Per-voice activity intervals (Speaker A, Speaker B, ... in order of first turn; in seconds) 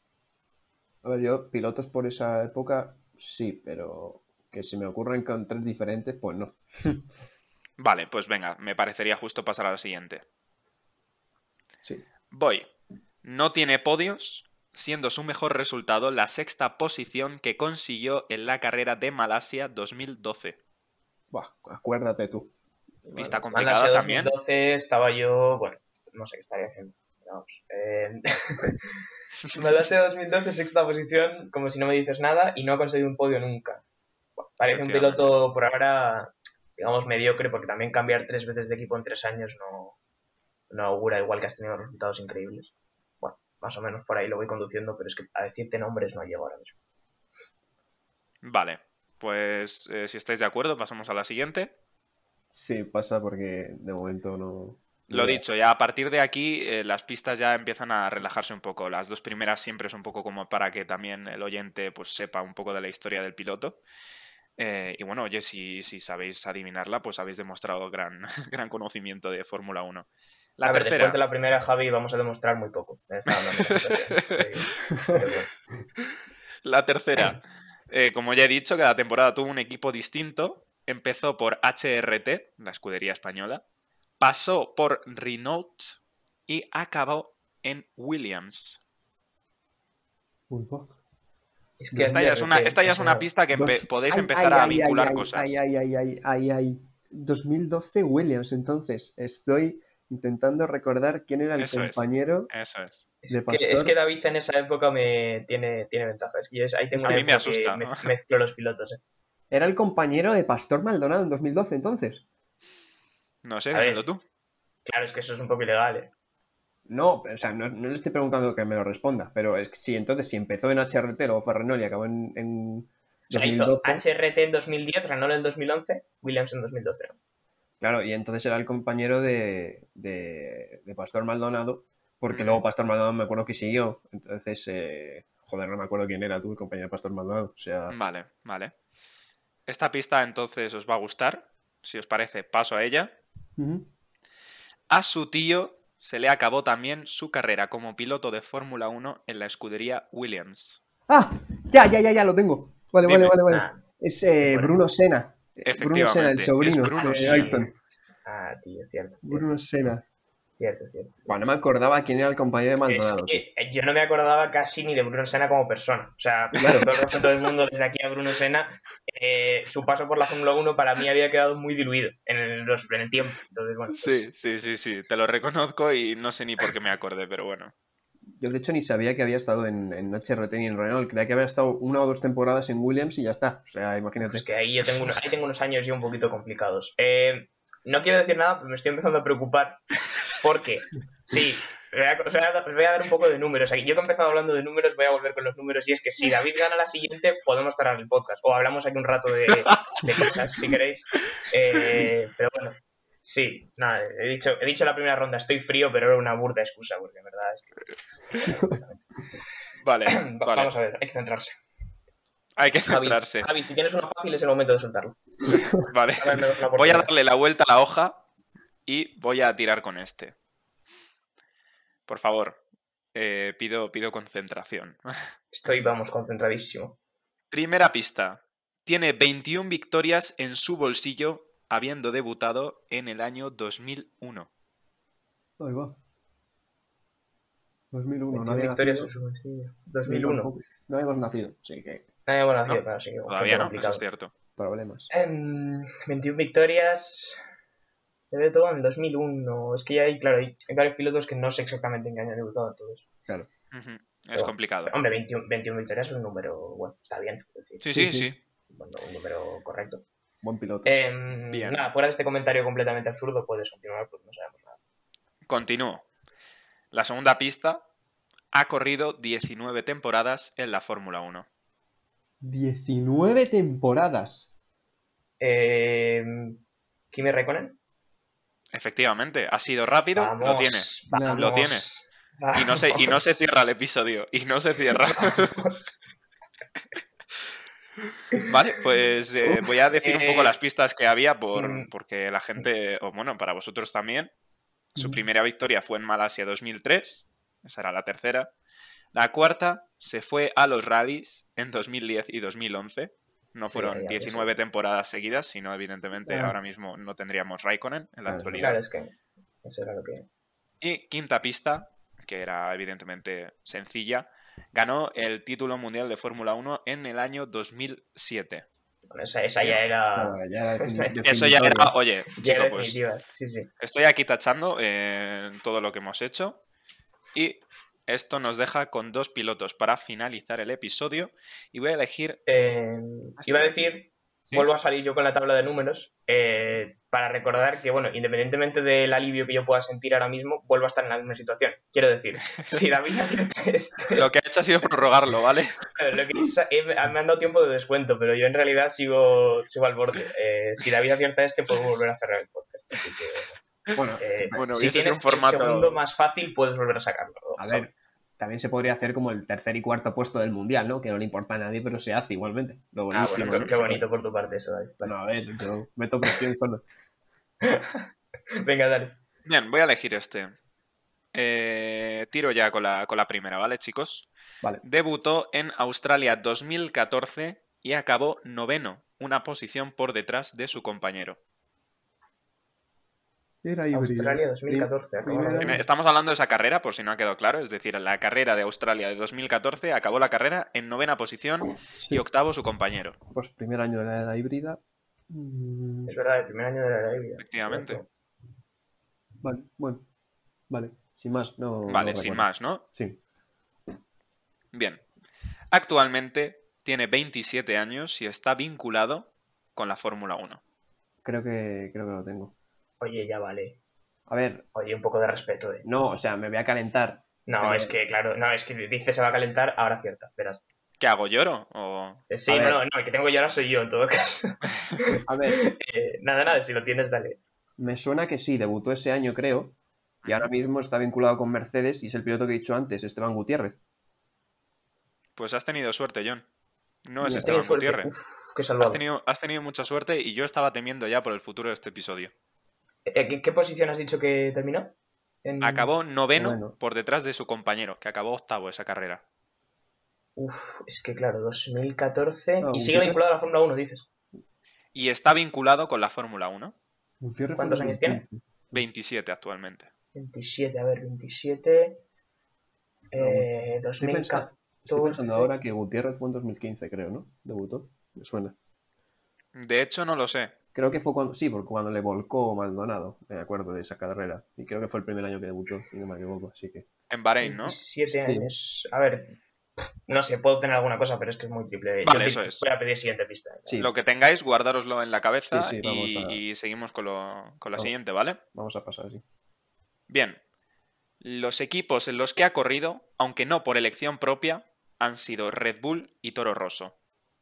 Speaker A: 1.0-7.0, 21.3-22.5, 23.0-23.5, 52.5-55.4, 74.9-75.2, 90.5-91.0, 91.9-92.4, 93.5-102.5, 103.3-103.9, 107.0-107.2, 109.5-112.2, 116.9-124.0, 127.8-137.9, 143.6-143.9, 151.1-157.7, 159.2-160.0, 161.3-163.4, 166.5-166.9, 178.4-184.4, 208.4-208.8, 235.6-236.0, 237.9-239.1, 240.0-242.1, 244.6-245.1, 257.9-258.3, 260.4-260.9, 272.4-274.5, 281.1-281.5, 294.9-295.2, 306.3-306.6, 308.2-308.7, 320.1-321.9, 353.9-354.6, 357.6-364.0, 365.0-366.8, 383.6-385.8, 392.0-392.2, 393.3-396.1, 399.4-400.1, 400.7-403.2, 411.2-412.5, 414.3-414.6, 415.8-417.9, 422.5-422.8, 425.3-425.6, 427.8-433.8, 437.2-437.5, 446.4-446.8, 452.6-453.2, 457.2-458.8, 463.2-463.5, 464.0-468.6, 470.8-476.9, 478.1-478.5, 485.5-486.4, 488.5-489.2
Speaker B: 7.8-10.2, 12.3-12.7, 13.2-20.6, 23.1-24.3, 34.7-35.4, 48.4-51.7, 55.1-63.8, 64.6-71.2, 73.7-74.4, 76.6-83.6, 84.2-88.8, 92.0-95.6, 101.6-103.0, 107.0-108.1, 113.4-114.2, 132.3-132.6, 137.9-138.7, 139.7-143.1, 144.9-150.8, 153.0-153.4, 155.6-157.6, 173.9-177.7, 209.8-210.7, 212.6-213.5, 215.9-218.2, 218.9-220.3, 222.1-222.6, 223.1-225.1, 227.5-234.5, 242.7-244.3, 253.7-254.9, 257.8-258.4, 261.5-261.9, 265.5-266.0, 266.9-267.8, 268.5-271.5, 278.7-281.9, 282.5-285.6, 288.4-294.3, 294.9-298.5, 299.1-308.8, 310.8-318.6, 321.2-323.0, 323.8-326.6, 327.3-332.4, 344.1-345.8, 354.5-356.0, 363.4-363.7, 369.4-370.5, 371.3-374.3, 374.8-381.4, 385.6-393.2, 397.4-398.0, 401.9-402.8, 404.7-405.0, 405.7-410.6, 421.0-422.2, 430.2-430.5, 435.4-436.5, 437.1-438.1, 438.8-442.3, 445.6-449.2, 454.9-456.8, 458.7-459.9, 469.5-470.5, 477.1-477.8, 482.0-482.6, 483.8-488.4, 490.1-490.4, 491.2-496.9
Speaker C: 23.5-28.8, 29.5-33.8, 34.5-40.0, 40.7-46.8, 70.6-75.5, 91.8-93.3, 103.2-109.0, 113.7-114.0, 114.8-116.1, 123.3-127.2, 153.4-153.8, 154.4-154.7, 157.0-157.6, 158.2-159.4, 160.6-161.3, 162.9-174.3, 184.2-209.0, 210.1-211.5, 212.9-217.1, 225.5-227.0, 238.3-240.5, 242.3-244.0, 245.1-247.4, 248.3-253.1, 254.4-257.8, 258.7-260.0, 260.8-264.8, 275.4-276.6, 277.1-277.8, 280.1-283.4, 285.1-286.0, 289.5-290.5, 291.5-291.9, 303.7-304.5, 308.6-310.3, 319.1-321.1, 322.3-323.7, 332.5-344.3, 345.9-353.6, 354.2-357.9, 363.1-365.1, 367.6-369.1, 383.9-385.8, 396.1-398.1, 413.0-413.8, 414.8-415.8, 417.5-420.6, 422.3-427.4, 437.2-439.0, 443.1-445.9, 450.4-454.1, 457.6-458.2, 460.1-462.0, 463.1-465.5, 477.4-479.3, 480.1-483.8